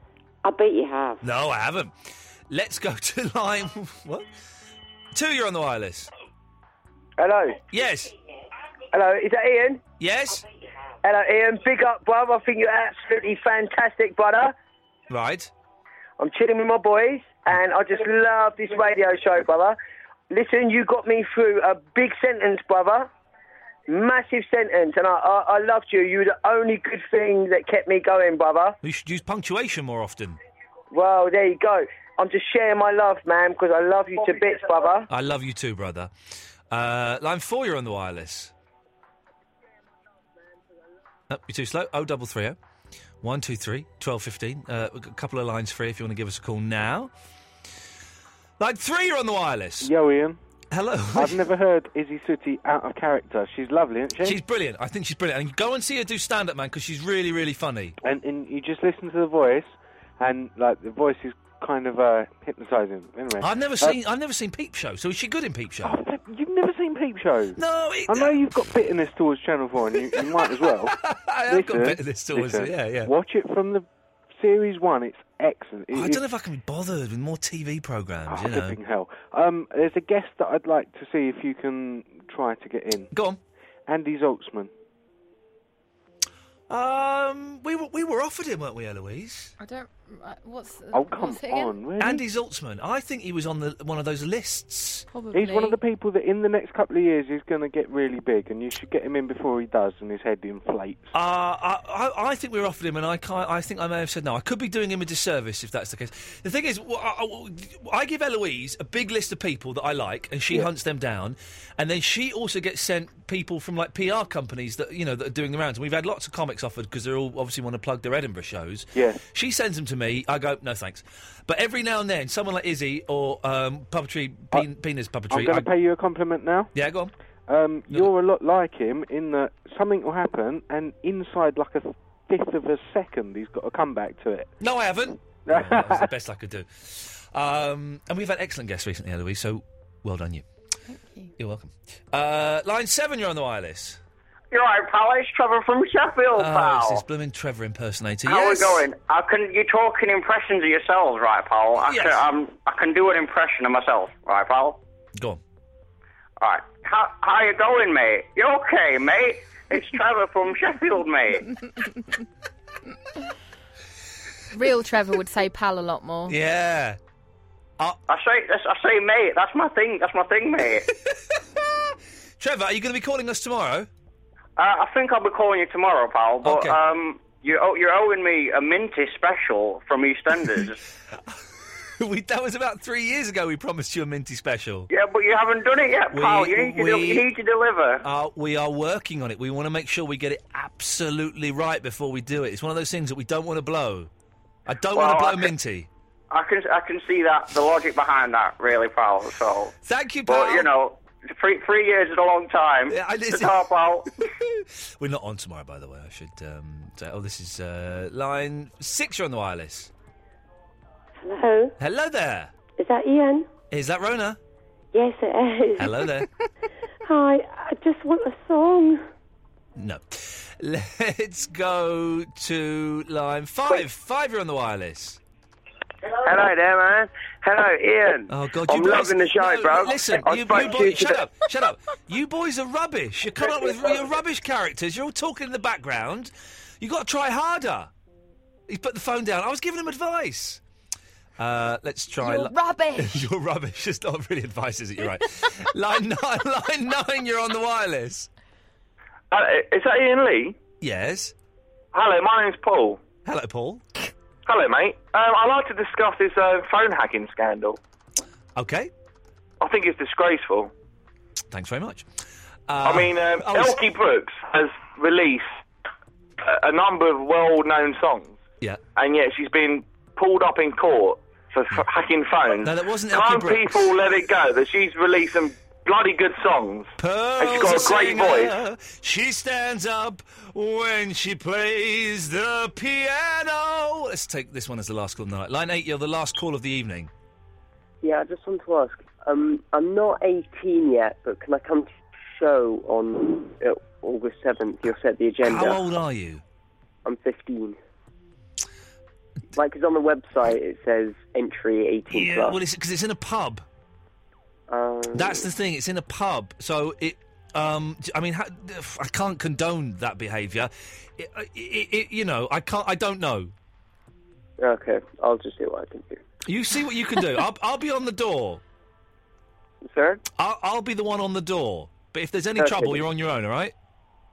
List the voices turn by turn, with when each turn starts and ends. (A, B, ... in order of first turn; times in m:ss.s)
0:00.4-0:01.2 A
0:01.2-0:02.0 B
0:02.5-0:04.3 B
0:05.1-0:06.1 B
0:07.2-0:07.5 C
0:07.7-0:08.1 B
0:08.9-0:09.8 C
0:10.0-0:10.4 B
0:11.0-0:14.5 C
0:15.1-0:15.5 B
0:16.2-0:19.8 C
0:20.3-0:23.1 C
0:23.9-0:28.8 C
0:28.8-0:30.4 B
0:30.9-0:35.1 C
0:35.1-0:36.1 B
0:36.7-0:38.5 B
0:41.3-0:42.6 B
0:43.2-0:47.1 B
0:48.6-0:49.9 B
0:49.8-0:50.4 D
0:50.7-0:51.5 B
0:51.1-0:54.4 D
0:54.2-0:58.0 B
0:58.0-1:04.0 D
1:03.4-1:06.0 B
1:05.8-1:13.9 D
1:07.6-1:08.6 B
1:10.0-1:13.1 B
1:14.4-1:16.2 D
1:15.9-1:18.8 B
1:18.3-1:23.1 D
1:23.1-1:23.4 B
1:23.9-1:24.7 D
1:26.7-1:29.5 B
1:29.6-1:31.8 E
1:30.9-1:32.2 D
1:32.0-1:35.1 B
1:35.1-1:35.8 E
1:35.3-1:41.1 D
1:41.1-2:05.7 B
1:58.9-1:59.2 D
2:05.3-2:06.7 D
2:06.7-2:07.1 B
2:07.5-2:14.5 D
2:14.6-2:20.5 B
2:15.5-2:16.1 D
2:20.9-2:21.3 E
2:21.4-2:24.0 B
2:24.5-2:27.0 F
2:26.4-2:28.9 B
2:28.3-2:34.8 F
2:31.8-2:32.3 B
2:36.4-2:41.5 F
2:44.5-2:46.4 E
2:46.3-2:47.0 B
2:48.1-2:50.9 F
2:51.0-2:53.9 B
2:54.6-3:00.8 F
2:56.4-2:56.8 B
3:01.1-3:04.9 B
3:04.9-3:08.0 F
3:06.1-3:07.3 B
3:08.0-3:14.1 B
3:14.7-3:15.9 B
3:15.0-3:15.5 F
3:16.3-3:19.7 F
3:19.8-3:20.7 B
3:20.3-3:24.2 F
3:22.9-3:23.7 B
3:24.4-3:29.9 B
3:31.2-3:31.7 A
3:31.8-3:32.5 B
3:32.8-3:33.5 A
3:33.7-3:34.4 B
3:34.9-3:35.9 A
3:35.8-3:36.3 B
3:37.0-3:39.0 A
3:39.8-3:45.2 B
3:46.2-3:51.2 C
3:48.3-3:57.9 B
3:58.7-4:00.6 B
4:01.4-4:08.3 B
4:02.2-4:03.2 E
4:09.3-4:10.5 G
4:10.8-4:11.4 B
4:11.9-4:13.0 G
4:13.2-4:13.8 B
4:14.5-4:17.8 G
4:18.6-4:18.9 B
4:19.6-4:20.7 G
4:21.5-4:22.1 B
4:22.7-4:23.8 B
4:22.8-4:25.5 G
4:26.4-4:28.3 G
4:29.0-4:36.9 G
4:32.5-4:34.0 B
4:37.0-4:47.1 B
4:37.4-4:38.5 G
4:48.0-4:55.8 H
4:55.4-4:56.4 B
4:57.0-4:57.8 H
4:59.5-5:02.6 H
5:02.1-5:03.6 B
5:04.7-5:05.5 H
5:05.1-5:13.5 B
5:14.6-5:16.2 H
5:16.4-5:18.6 B
5:19.8-5:20.2 H
5:20.4-5:23.8 B
5:22.6-5:23.0 H